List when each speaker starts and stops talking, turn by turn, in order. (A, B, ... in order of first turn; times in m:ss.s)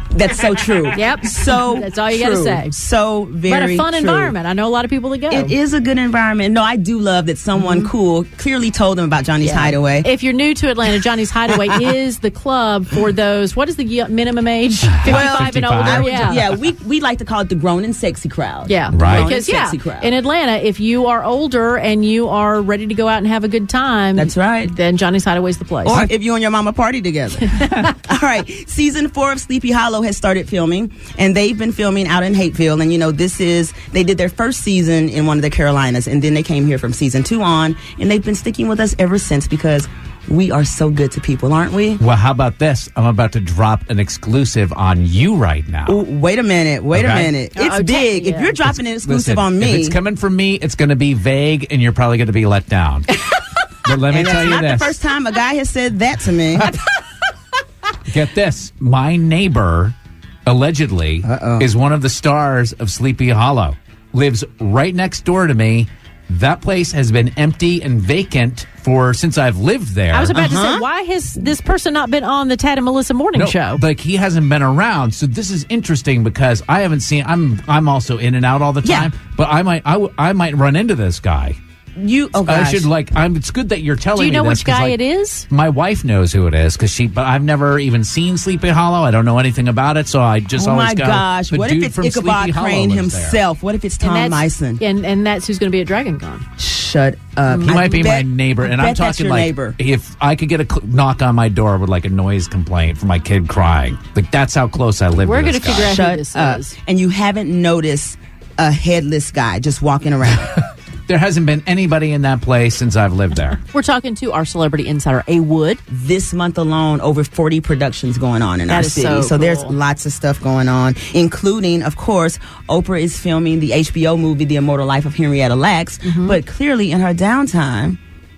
0:00.1-0:04.4 A
0:00.9-0:02.8 B
0:03.4-0:05.5 B
0:05.3-0:10.1 A
0:07.6-0:07.9 B
0:09.4-0:16.4 B
0:11.5-0:11.9 A
0:14.9-0:16.4 C
0:15.0-0:20.1 A
0:18.7-0:26.1 B
0:18.9-0:19.3 C
0:24.2-0:24.7 A
0:25.8-0:42.0 A
0:42.0-0:46.0 C
0:45.8-0:50.0 A
0:46.9-0:47.3 C
0:47.5-0:48.6 B
0:48.6-0:53.2 C
0:53.8-0:54.9 C
0:54.1-0:56.7 A
0:58.1-0:59.9 C
1:00.4-1:10.4 C
1:01.3-1:01.6 A
1:10.1-1:13.8 B
1:10.3-1:10.8 A
1:13.3-1:21.6 C
1:18.8-1:19.1 A
1:22.0-1:22.9 A
1:22.5-1:25.0 C
1:24.1-1:25.4 B
1:25.5-1:33.4 C
1:30.6-1:34.8 A
1:34.0-1:36.4 B
1:36.6-1:39.8 A
1:37.5-1:38.0 B
1:37.6-1:45.9 C
1:45.2-1:46.7 B
1:45.8-1:50.5 A
1:51.1-1:53.6 C
1:53.6-1:55.8 B
1:55.9-2:08.0 A
1:58.7-1:59.7 B
2:06.0-2:06.4 B